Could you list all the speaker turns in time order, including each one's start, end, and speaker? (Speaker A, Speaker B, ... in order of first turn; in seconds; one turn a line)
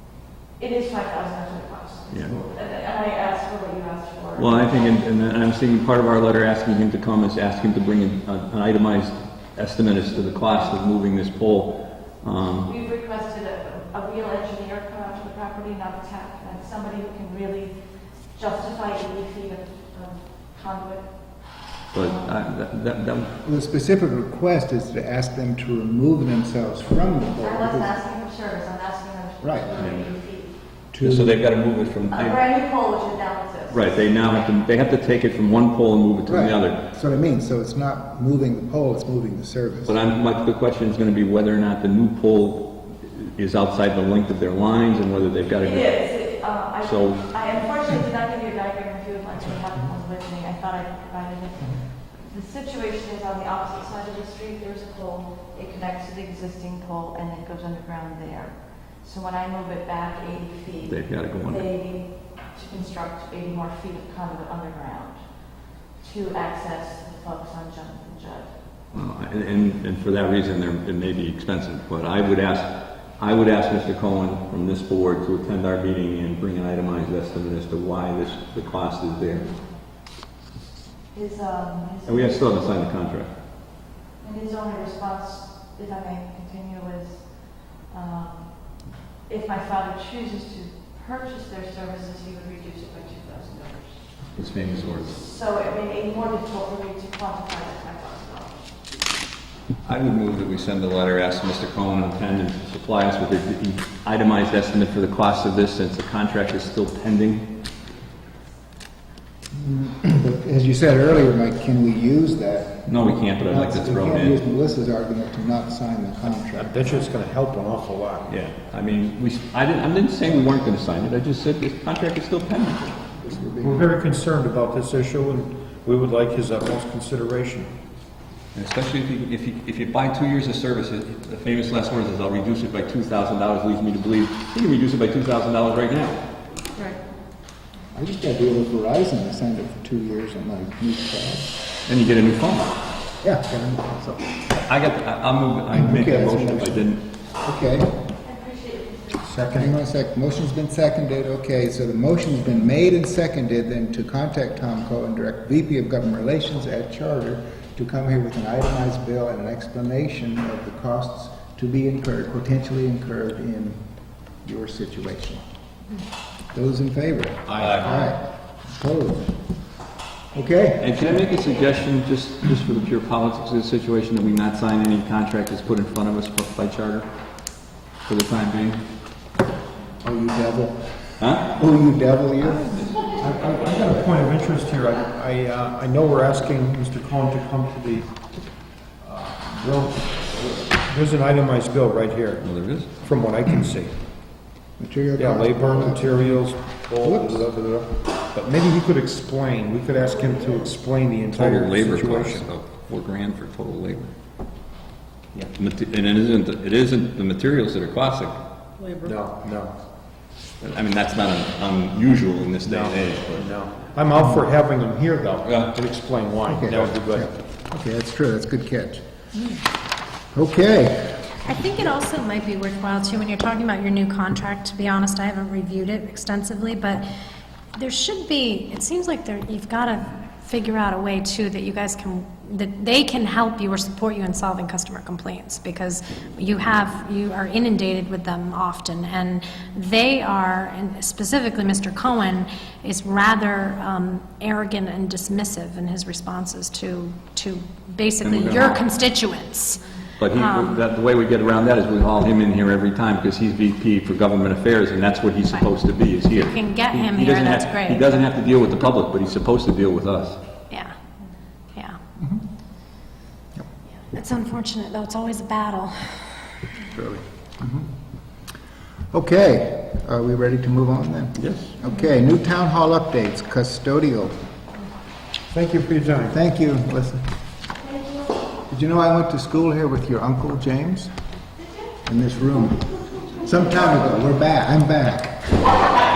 Speaker A: 0.6-4.9
Speaker B: 2.1-2.4
Speaker B: 4.4-12.7
Speaker A: 12.6-22.3
Speaker B: 21.9-23.3
Speaker C: 23.4-27.9
Speaker A: 27.4-30.6
Speaker C: 29.4-29.7
Speaker B: 29.8-30.1
Speaker C: 30.9-31.4
Speaker B: 31.0-32.4
Speaker A: 32.1-33.9
Speaker B: 33.7-36.8
Speaker C: 36.3-40.0
Speaker B: 39.9-46.1
Speaker A: 45.6-68.6
Speaker B: 46.8-47.3
Speaker B: 60.9-61.7
Speaker B: 68.9-79.5
Speaker A: 81.1-82.6
Speaker B: 82.0-83.3
Speaker A: 84.2-94.3
Speaker B: 94.3-95.2
Speaker A: 95.0-98.7
Speaker B: 99.8-107.5
Speaker C: 109.5-117.1
Speaker B: 112.9-114.4
Speaker D: 116.5-118.4
Speaker B: 118.3-123.2
Speaker C: 123.2-123.9
Speaker D: 123.6-127.7
Speaker B: 128.5-136.2
Speaker C: 137.9-141.6
Speaker B: 141.9-142.8
Speaker C: 143.2-144.4
Speaker B: 144.6-147.0
Speaker C: 145.7-147.9
Speaker A: 148.3-149.2
Speaker D: 149.2-149.7
Speaker C: 149.5-165.4
Speaker C: 166.5-169.4
Speaker B: 167.5-168.1
Speaker C: 170.3-171.3
Speaker B: 170.8-177.1
Speaker B: 178.1-178.8
Speaker C: 180.0-182.8
Speaker B: 181.2-181.6
Speaker B: 182.4-182.9
Speaker D: 183.0-188.2
Speaker D: 189.0-194.0
Speaker B: 192.4-192.9
Speaker C: 194.8-197.5
Speaker D: 195.2-202.5
Speaker B: 201.3-204.1
Speaker B: 205.5-208.4
Speaker D: 209.0-209.7
Speaker B: 210.6-213.5
Speaker D: 212.7-217.3
Speaker C: 214.2-214.4
Speaker B: 215.4-215.7
Speaker C: 216.5-219.1
Speaker C: 220.3-221.2
Speaker E: 221.4-227.1
Speaker E: 227.8-250.8
Speaker B: 248.2-248.8
Speaker B: 250.2-260.4
Speaker E: 256.3-258.3
Speaker E: 260.7-260.9
Speaker E: 264.1-266.1
Speaker B: 266.9-267.2
Speaker C: 267.6-267.9
Speaker C: 269.1-274.4
Speaker B: 271.4-271.7
Speaker D: 275.5-276.4
Speaker C: 276.3-277.2
Speaker C: 278.7-281.1
Speaker C: 282.1-285.4